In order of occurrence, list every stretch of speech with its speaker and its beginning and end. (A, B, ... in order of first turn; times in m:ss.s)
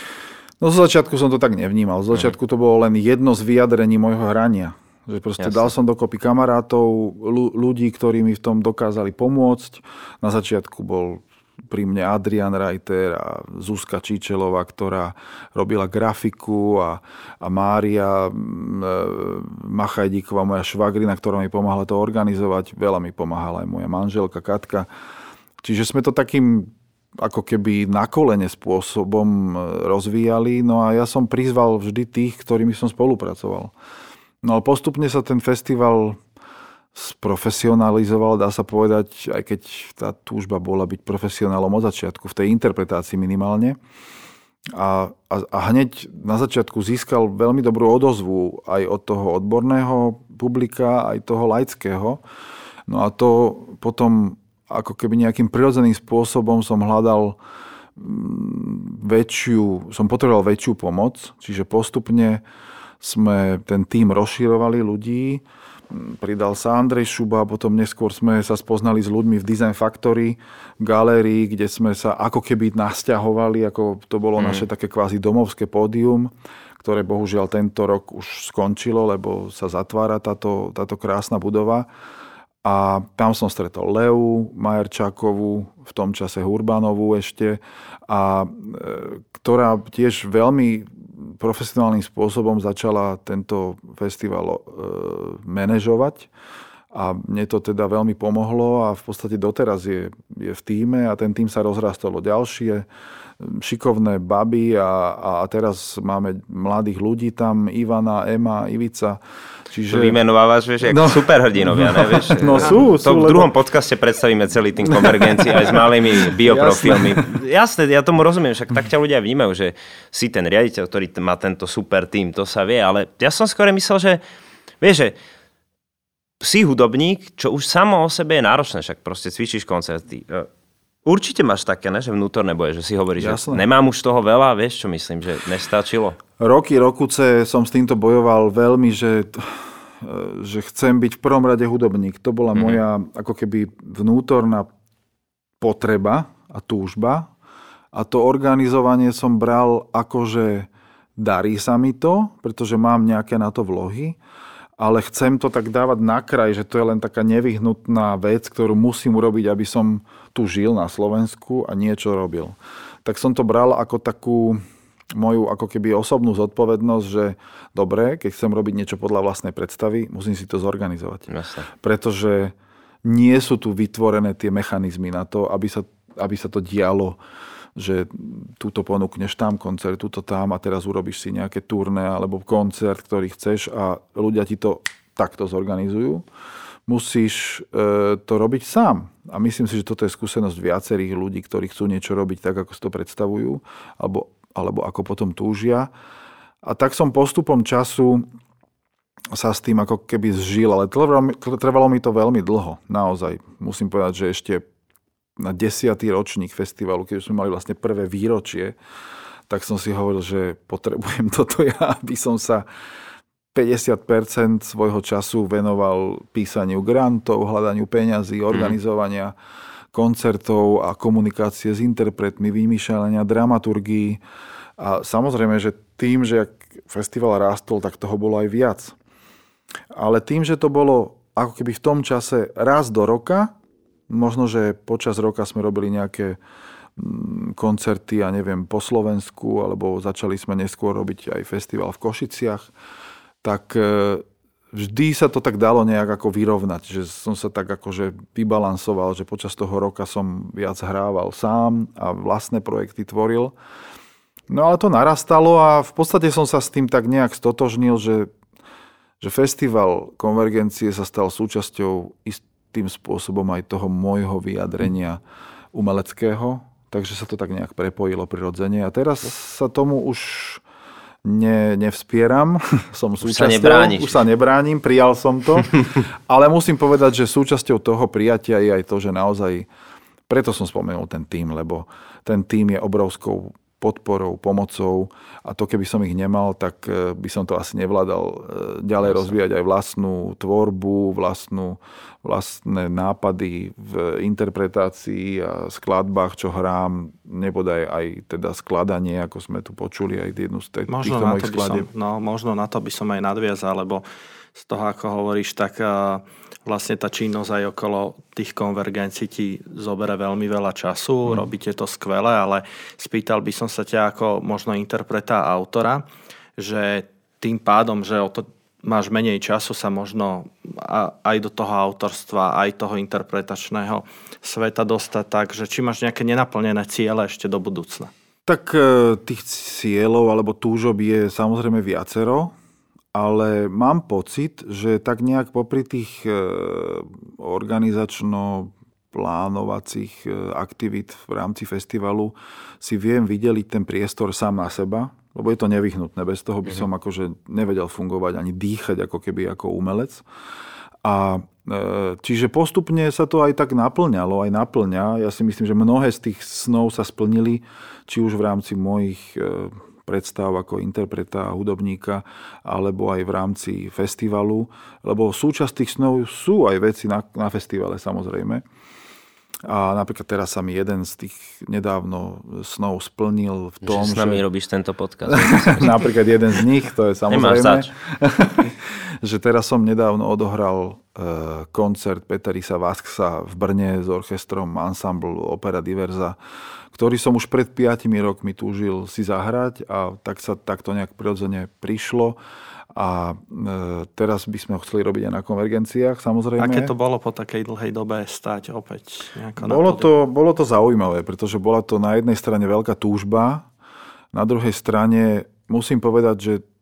0:00.6-0:24.9 A
0:05.4-0:05.7 B
0:25.6-0:33.7 A
0:34.4-0:36.2 A
0:36.9-0:43.8 A
0:44.7-0:52.2 A
0:52.9-0:57.4 A
0:58.0-1:02.4 A
1:03.0-1:21.9 A
1:14.4-1:14.6 B
1:22.6-1:36.3 A
1:36.9-1:42.9 A
1:43.4-1:50.2 A
1:49.9-2:04.2 B
1:50.8-1:53.5 A
1:54.9-1:55.8 A
1:56.4-1:57.3 A
2:04.8-2:05.2 B
2:06.4-2:10.5 B
2:11.0-2:16.2 B
2:13.2-2:13.6 A
2:16.4-2:24.7 A
2:25.6-2:27.3 A
2:27.9-2:34.2 A
2:34.8-2:44.6 A
2:45.1-2:52.5 A
2:51.3-2:51.7 B
2:53.0-2:57.2 A
2:57.8-3:06.2 A
3:06.9-3:15.9 A
3:16.6-3:18.3 A
3:19.3-3:24.6 A
3:25.4-3:28.8 A
3:29.5-3:32.7 A
3:33.5-3:39.3 A
3:38.5-3:38.8 B
3:39.9-3:44.2 A
3:44.8-3:49.0 A
3:49.9-3:53.5 A
3:54.1-3:56.4 A
3:57.0-4:02.7 A
4:03.4-4:13.6 A
4:14.5-4:18.3 A
4:19.2-4:25.2 A
4:25.7-4:30.6 A
4:31.2-4:39.7 A
4:33.2-4:34.2 B
4:40.3-5:01.9 A
5:00.9-5:04.0 C
5:04.6-5:16.0 C
5:16.6-5:28.1 C
5:28.5-5:32.5 A
5:33.1-5:50.2 A
5:51.0-6:08.6 A
6:09.6-6:14.4 A
6:13.8-6:16.1 B
6:15.3-6:26.4 A
6:17.3-6:17.9 B
6:26.9-6:32.4 A
6:32.9-6:36.9 A
6:36.6-6:40.1 C
6:39.6-6:43.7 A
6:44.3-6:46.6 A